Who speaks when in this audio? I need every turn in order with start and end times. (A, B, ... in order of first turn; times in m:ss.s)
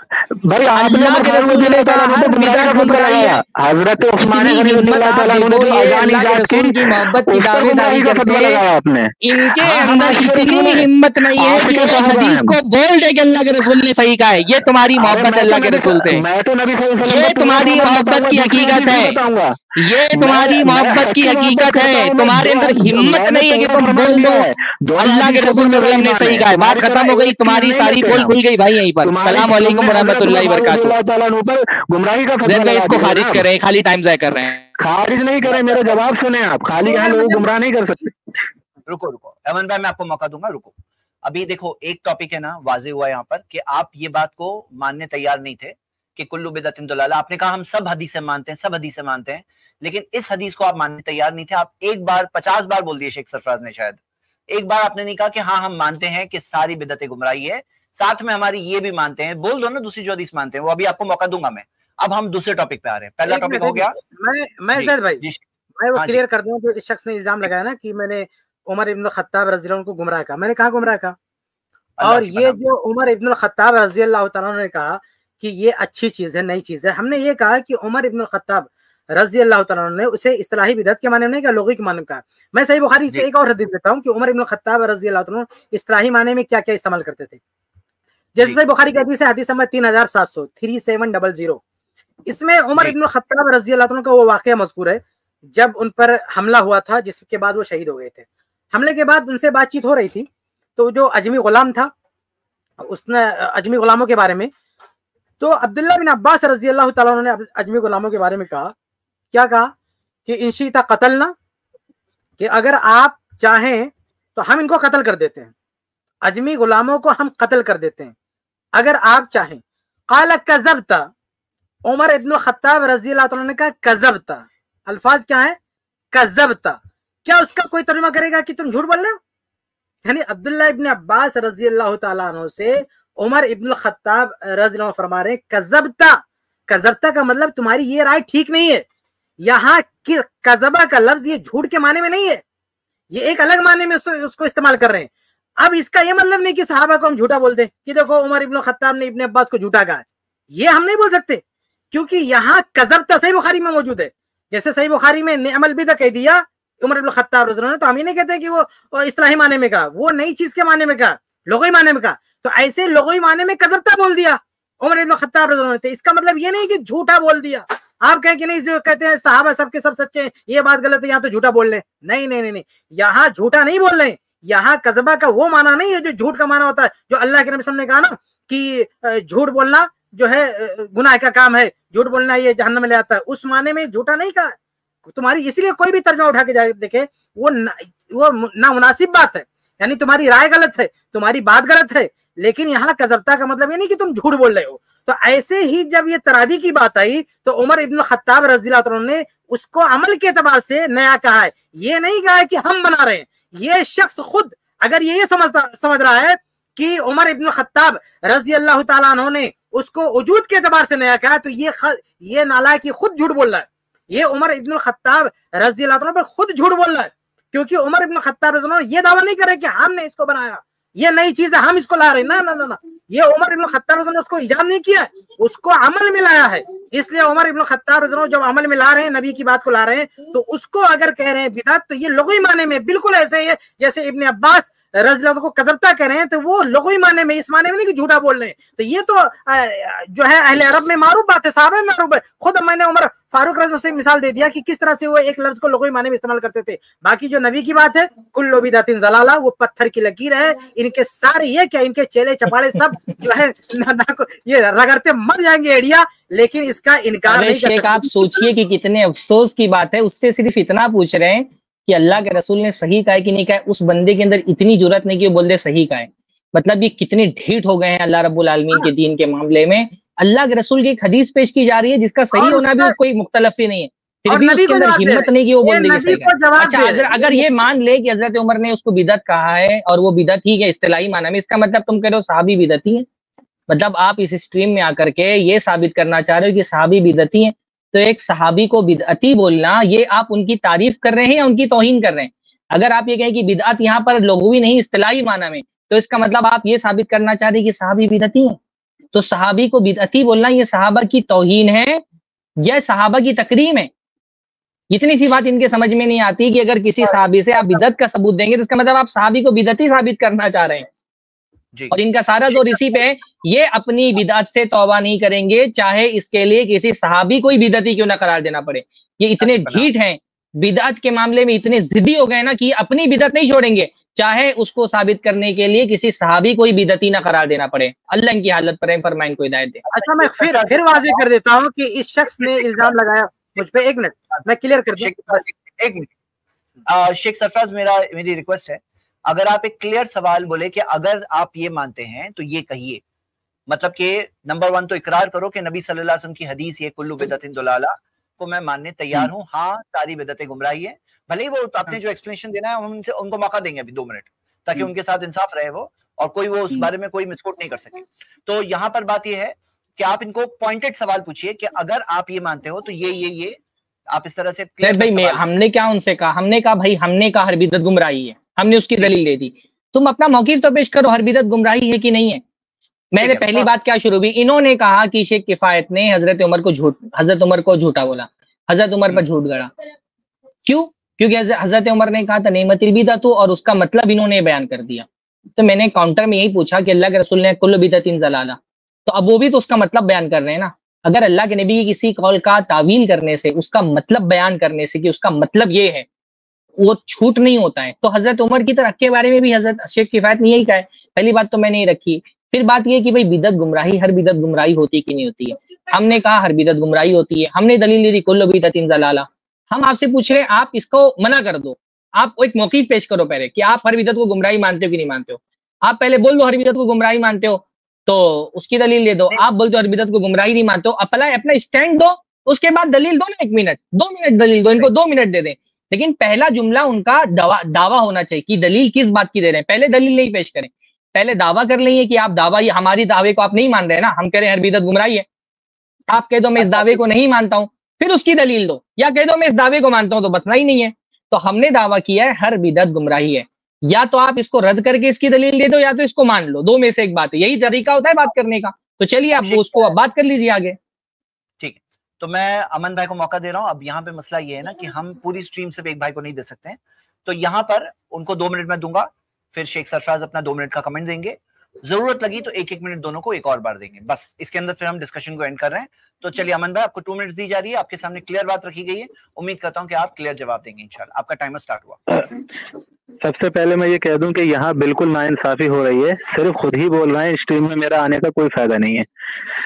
0:00.3-0:06.8 A
0:00.8-0:03.4 B
0:04.2-0:08.6 B
0:07.3-0:12.6 A
0:09.2-0:16.2 B
0:15.0-0:28.4 A
0:17.0-0:19.2 B
0:19.8-0:31.0 B
0:29.0-0:33.4 A
0:32.4-0:34.7 B
0:34.8-0:38.1 A
0:36.8-0:37.5 C
0:38.8-1:03.9 D
1:03.2-1:05.2 C
1:04.7-1:05.4 D
1:05.8-1:11.2 C
1:12.0-1:12.6 D
1:12.0-1:27.4 C
1:28.4-1:31.6 C
1:32.3-1:41.9 C
1:42.8-1:44.5 C
1:45.4-1:48.7 C
1:49.3-1:49.7 C
1:50.2-1:51.3 C
1:52.4-1:55.5 C
1:56.2-1:58.1 C
1:58.8-2:01.1 C
2:01.8-2:05.6 C
2:06.1-2:09.2 C
2:10.0-2:18.8 C
2:19.4-2:22.4 C
2:23.1-2:25.1 C
2:25.6-3:04.5 C
3:05.0-4:18.4 C
4:17.3-4:43.0 B
4:32.3-4:32.9 C
4:34.3-4:37.4 C
4:43.7-4:58.6 B
4:59.1-5:02.0 B
5:02.6-5:03.9 B
5:04.9-5:10.9 B
5:11.9-5:29.8 B
5:12.5-5:12.8 D
5:19.4-5:19.9 D
5:29.8-5:31.2 D
5:29.9-5:35.4 C
5:35.0-5:36.1 D
5:36.8-5:43.0 D
5:43.7-6:03.6 D
6:04.1-6:05.4 D
6:04.8-6:12.4 B
6:13.1-6:19.7 B
6:13.2-6:13.7 D
6:20.6-6:25.0 B
6:25.6-6:36.0 B
6:36.8-7:15.2 B
7:16.1-7:30.8 B
7:29.4-7:29.9 D
7:31.6-7:52.0 D
7:53.2-7:59.1 A